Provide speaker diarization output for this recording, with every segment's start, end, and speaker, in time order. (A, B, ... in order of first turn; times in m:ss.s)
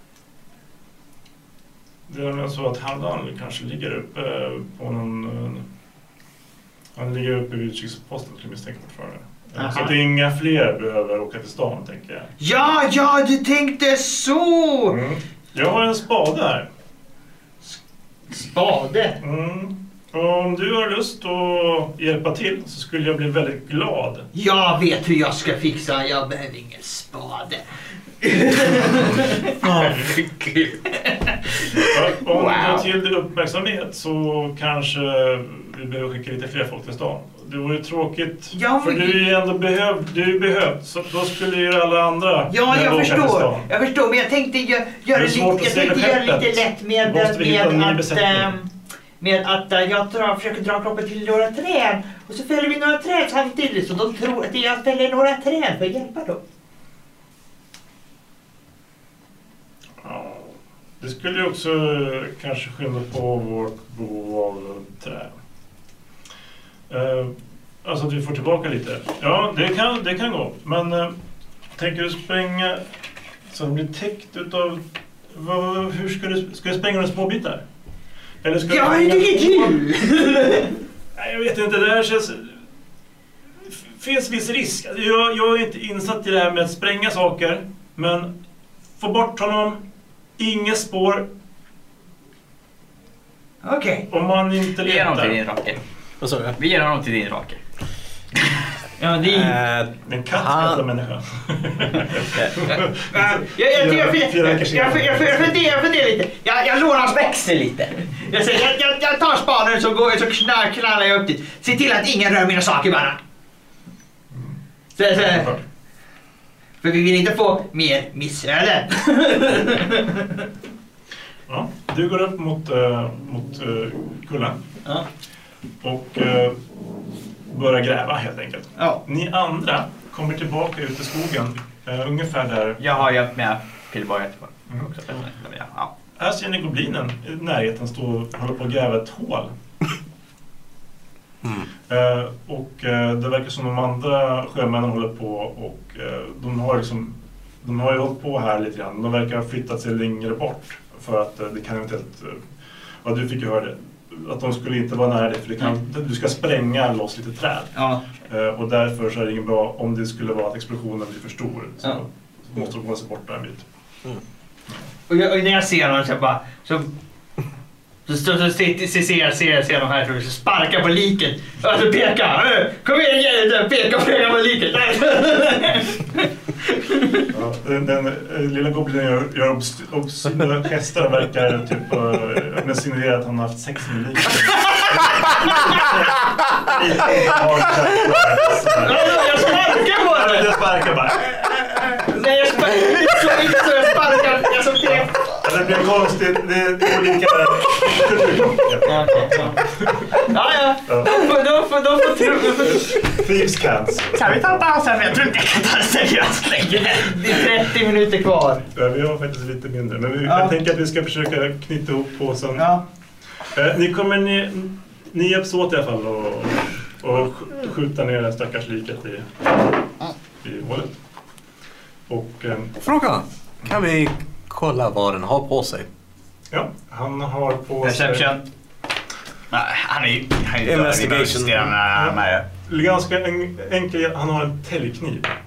0:02.1-0:05.6 A
0:07.0-0:12.3 A
0:09.6-0:09.9 B
0:12.4-0:15.0 B
0:14.9-0:16.7 A
0:18.3-0:19.2 B
0:19.2-0:24.3 A
0:24.3-0:27.6 B
0:28.2-0:32.6 B
0:31.8-0:43.7 A
0:38.5-0:39.3 B
0:42.5-0:56.4 B
0:45.1-0:48.5 A
1:00.0-1:05.3 A
1:06.9-1:11.2 A
1:11.8-1:12.8 A
1:13.5-1:17.6 A
1:18.4-1:19.7 A
1:18.7-1:20.8 B
1:21.2-1:22.6 A
1:23.7-1:28.3 A
1:29.0-1:29.8 A
1:30.4-1:31.3 A
1:33.6-1:34.1 B
1:34.1-1:35.5 A
1:34.8-1:35.8 C
1:36.2-1:36.6 D
1:36.6-1:37.6 C
1:39.0-1:39.6 B
1:39.2-1:40.8 D
1:40.0-1:45.6 A
1:43.1-1:53.2 B
1:54.3-1:54.6 A
1:55.0-1:55.6 B
1:55.2-1:55.6 A
1:56.8-2:00.4 B
2:01.5-2:04.6 A
2:05.8-2:06.6 A
2:07.5-2:13.0 A
2:08.8-2:09.0 B
2:12.8-2:15.9 C
2:16.2-2:19.5 A
2:21.9-2:32.4 A
2:33.0-2:37.7 A
2:37.8-2:38.0 B
2:38.3-2:43.6 A
2:45.1-2:46.9 B
2:48.1-2:57.3 B
2:57.3-3:11.8 A
3:08.7-3:10.6 B
3:11.9-3:15.2 B
3:14.8-3:20.1 A
3:18.8-3:23.1 B
3:20.9-3:21.3 A
3:22.7-3:24.7 A
3:24.2-3:27.4 C
3:26.8-3:28.6 B
3:28.7-3:32.7 A
3:30.3-3:30.6 B
3:32.6-3:32.8 B
3:33.5-3:39.6 A
3:40.4-3:40.9 A
3:42.1-3:42.7 A
3:42.8-3:45.9 D
3:46.5-3:48.3 A
3:47.8-3:48.4 C
3:49.5-3:52.5 C
3:50.6-3:51.7 D
3:51.9-3:55.3 A